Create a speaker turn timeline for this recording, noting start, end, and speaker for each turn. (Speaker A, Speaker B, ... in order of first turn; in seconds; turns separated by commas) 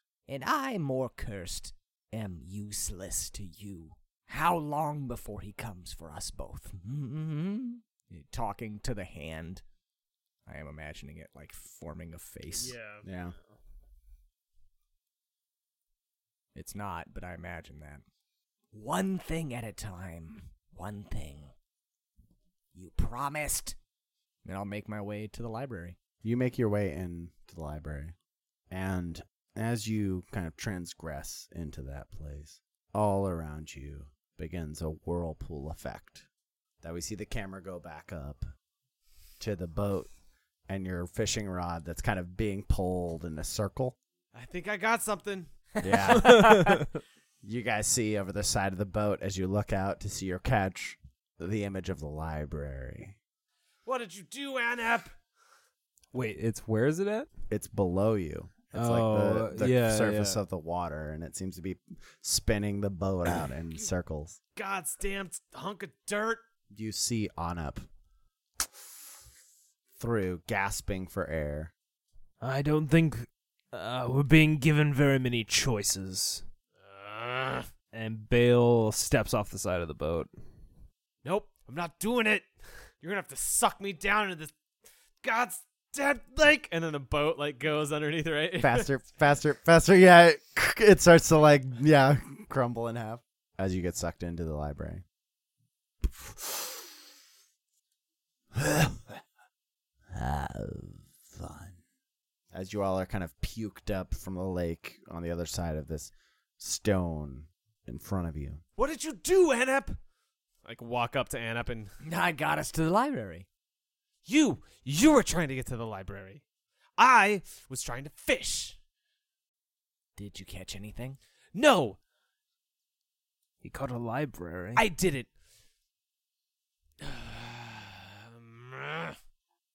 Speaker A: 0.3-9.6, Speaker A: 10.4-12.8, Speaker B: 12.6-13.6, Speaker C: 13.0-13.3, Speaker A: 16.5-18.0, Speaker A: 18.7-21.5, Speaker A: 22.7-23.8, Speaker A: 24.4-26.0, Speaker C: 26.2-28.1, Speaker C: 28.7-36.3, Speaker C: 36.8-38.5, Speaker C: 39.4-40.1, Speaker C: 40.7-44.0, Speaker D: 44.3-45.5, Speaker C: 45.8-46.8, Speaker B: 46.1-46.9, Speaker C: 47.4-53.2, Speaker D: 53.8-55.1, Speaker B: 56.1-57.3, Speaker C: 57.5-64.4, Speaker B: 58.7-60.4, Speaker D: 64.5-66.4, Speaker C: 66.7-67.8, Speaker C: 70.0-71.7, Speaker B: 72.4-76.4, Speaker D: 76.8-77.7, Speaker B: 77.9-80.3, Speaker D: 81.2-82.5, Speaker D: 83.0-84.5, Speaker D: 85.2-88.9, Speaker C: 88.6-95.0, Speaker C: 96.0-96.9, Speaker C: 98.5-99.2, Speaker C: 100.1-101.8, Speaker C: 102.5-108.6, Speaker D: 108.8-110.0, Speaker D: 110.6-111.9, Speaker A: 112.0-113.5, Speaker D: 114.2-116.4, Speaker D: 117.0-118.8, Speaker A: 120.2-121.2, Speaker D: 121.5-122.0, Speaker B: 123.6-124.8, Speaker D: 124.8-125.3, Speaker D: 127.0-129.2